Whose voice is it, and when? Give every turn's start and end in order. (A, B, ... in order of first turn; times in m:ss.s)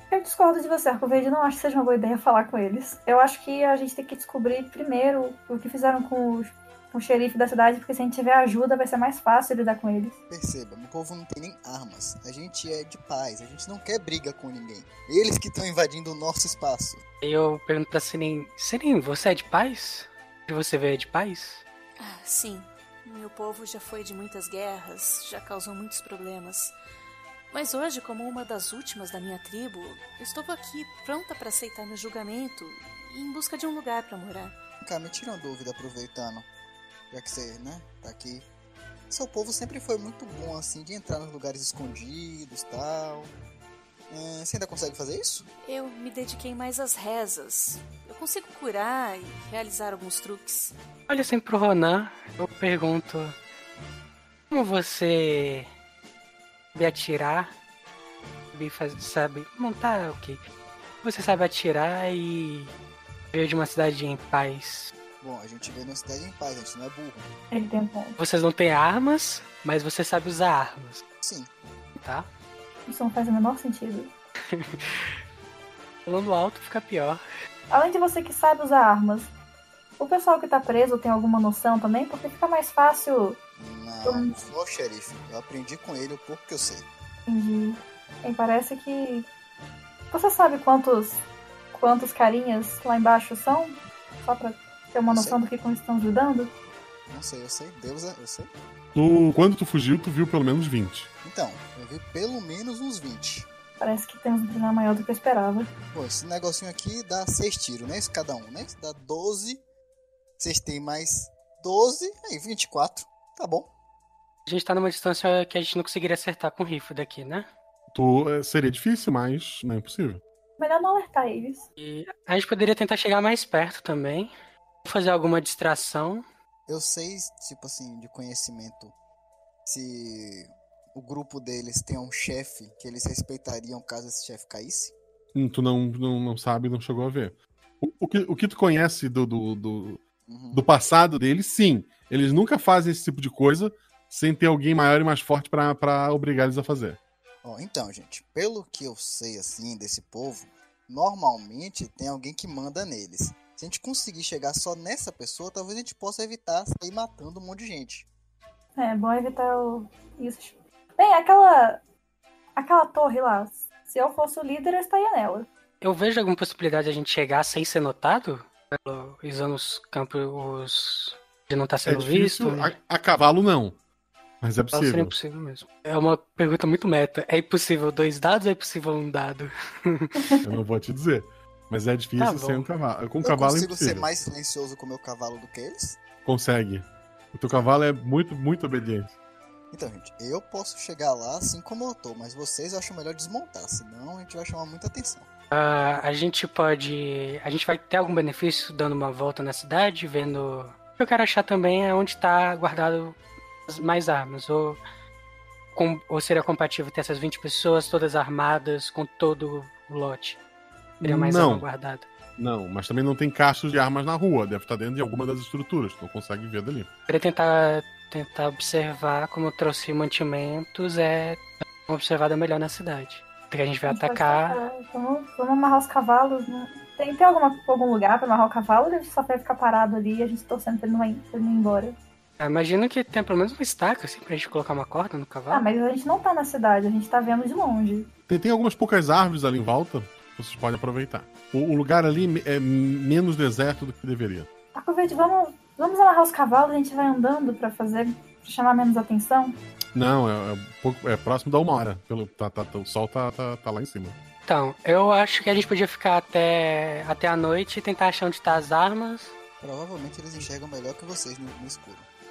0:00.1-0:10.2 A
0:10.3-0:17.0 B
0:17.2-0:21.6 C
0:22.0-0:26.7 D
0:27.5-0:34.6 D
0:34.8-0:36.5 B
0:37.1-0:38.5 B
0:39.1-0:43.3 B
0:44.1-0:45.5 B
0:45.6-0:50.7 D
0:51.1-0:53.4 C
0:54.5-0:55.7 C
0:56.7-0:57.5 C
0:58.5-1:00.4 C
1:01.0-1:02.7 C
1:03.3-1:04.9 C
1:05.2-1:07.3 B
1:07.5-1:08.2 A
1:08.2-1:11.0 C
1:11.2-1:11.5 B
1:12.0-1:12.3 C
1:12.9-1:14.1 A
1:14.5-1:15.2 C
1:16.0-1:17.2 C
1:17.7-1:19.3 A
1:20.0-1:23.4 A
1:23.6-1:26.9 B
1:24.0-1:24.4 A
1:27.3-1:29.3 A
1:30.1-1:31.2 A
1:31.7-1:36.5 A
1:35.1-1:35.4 B
1:37.1-1:38.5 B
1:39.0-1:41.1 E
1:41.2-1:43.5 B
1:43.8-1:45.7 A
1:45.9-1:49.6 B
1:50.4-1:53.7 B
1:54.5-1:57.5 C
1:57.9-2:00.2 E
2:00.6-2:01.7 A
2:01.8-2:04.3 C
2:04.8-2:06.2 C
2:06.7-2:09.0 B
2:09.7-2:15.0 B
2:15.3-2:20.0 E
2:20.3-2:20.6 B
2:20.5-2:27.0 E
2:27.4-2:38.0 B
2:38.8-2:41.8 A
2:42.6-2:45.5 A
2:45.8-2:52.7 C
2:51.9-2:53.8 E
2:54.4-2:55.1 E
2:54.7-3:00.1 C
3:00.4-3:04.1 E
3:02.2-3:02.7 C
3:03.2-3:06.0 B
3:06.2-3:09.1 E
3:09.7-3:15.3 B
3:15.5-3:24.8 C
3:25.7-3:30.4 C
3:31.0-3:31.7 E
3:31.0-3:32.1 C
3:32.4-3:36.9 E
3:37.1-3:44.6 C
3:43.9-3:52.0 A
3:52.4-3:55.7 C
3:55.5-3:58.1 A
3:58.3-4:04.5 E
4:04.7-4:09.6 A
4:10.0-4:14.2 E
4:14.5-4:19.3 C
4:19.6-4:22.1 B